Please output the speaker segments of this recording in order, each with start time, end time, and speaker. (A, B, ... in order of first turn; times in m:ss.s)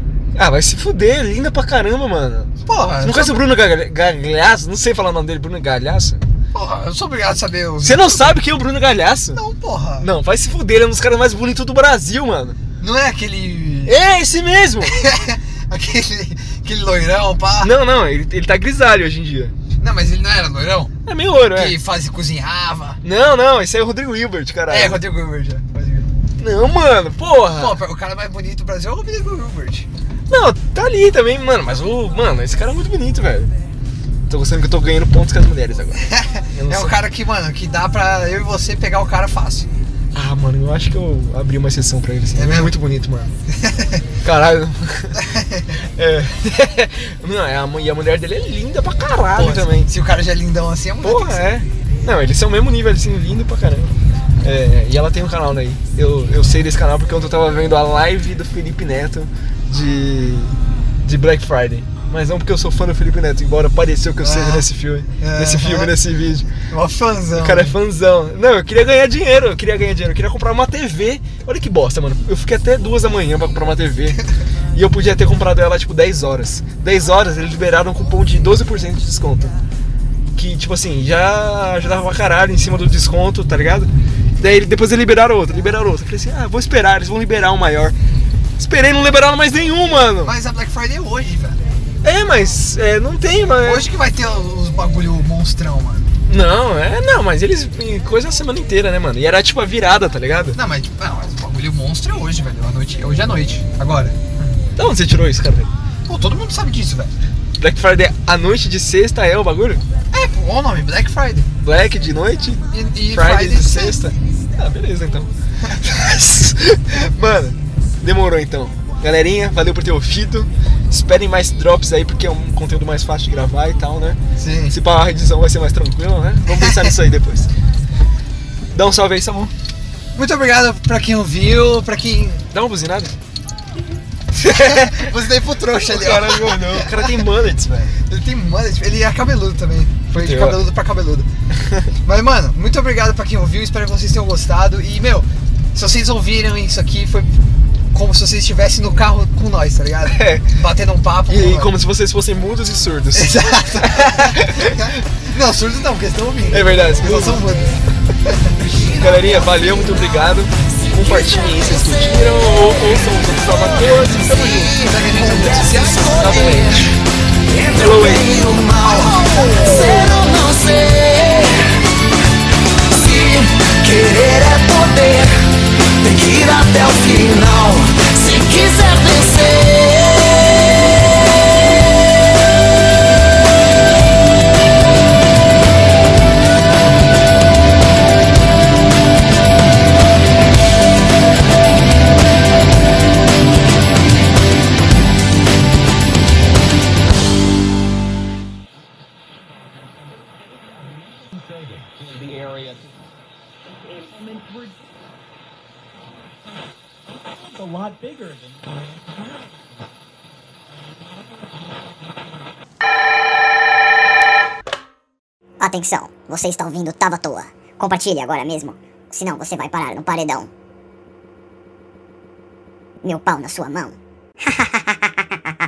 0:00.4-0:06.2 A
0:02.6-0:03.5 B
0:06.5-0:08.4 B
0:07.8-0:09.4 A
0:09.3-0:10.1 B
0:10.0-0:12.6 A
0:12.8-0:14.0 B
0:13.9-0:14.9 A
0:14.8-0:17.7 B
0:17.6-0:19.5 A
0:19.8-0:20.9 B
0:21.0-0:21.8 A
0:21.5-0:23.0 B
0:23.0-0:25.0 A
0:24.7-0:26.1 B
0:26.4-0:27.8 A
0:27.6-0:29.9 B
0:30.3-0:33.5 A
0:34.3-0:36.0 A
0:36.0-0:39.7 B
0:36.5-0:36.9 A
0:40.1-0:43.3 A
0:42.3-0:42.7 B
0:43.5-0:44.0 B
0:44.2-0:45.2 A
0:45.2-0:45.8 B
0:46.0-0:49.9 A
0:49.4-0:51.5 B
0:51.0-1:06.5 A
1:04.2-1:04.7 B
1:05.2-1:05.9 B
1:06.7-1:07.7 B
1:07.4-1:19.5 A
1:20.4-1:27.9 A
1:28.6-1:30.3 A
1:30.2-1:31.6 B
1:32.0-1:33.8 A
1:33.6-1:36.1 B
1:36.3-1:40.6 A
1:40.5-1:44.6 B
1:44.8-1:45.7 A
1:46.1-1:47.1 B
1:47.6-1:49.8 A
1:50.1-1:51.4 B
1:51.6-1:55.3 A
1:52.7-1:54.2 B
1:55.6-1:55.9 B
1:55.8-2:04.2 A
2:04.4-2:04.7 B
2:04.7-2:07.5 A
2:06.5-2:06.9 B
2:08.7-2:09.5 A
2:10.2-2:12.4 B
2:12.5-2:13.1 A
2:14.4-2:17.1 B
2:14.4-2:15.1 A
2:15.7-2:17.9 A
2:18.1-2:21.3 B
2:20.1-2:20.6 A
2:21.6-2:21.9 A
2:22.0-2:27.3 B
2:27.9-2:31.7 B
2:30.0-2:30.5 A
2:31.3-2:35.0 A
2:33.1-2:38.5 B
2:36.5-2:37.6 A
2:39.0-2:44.8 A
2:44.4-2:46.9 C
2:44.8-2:46.2 B
2:45.8-2:46.9 A
2:47.5-2:51.9 C
2:47.6-2:48.3 A
2:48.8-2:50.0 B
2:52.8-3:00.5 C
3:20.0-3:23.0 D
3:23.6-3:25.1 D
3:26.4-3:29.9 D
3:30.7-3:32.5 D
3:35.6-3:40.5 E
3:43.0-3:45.1 E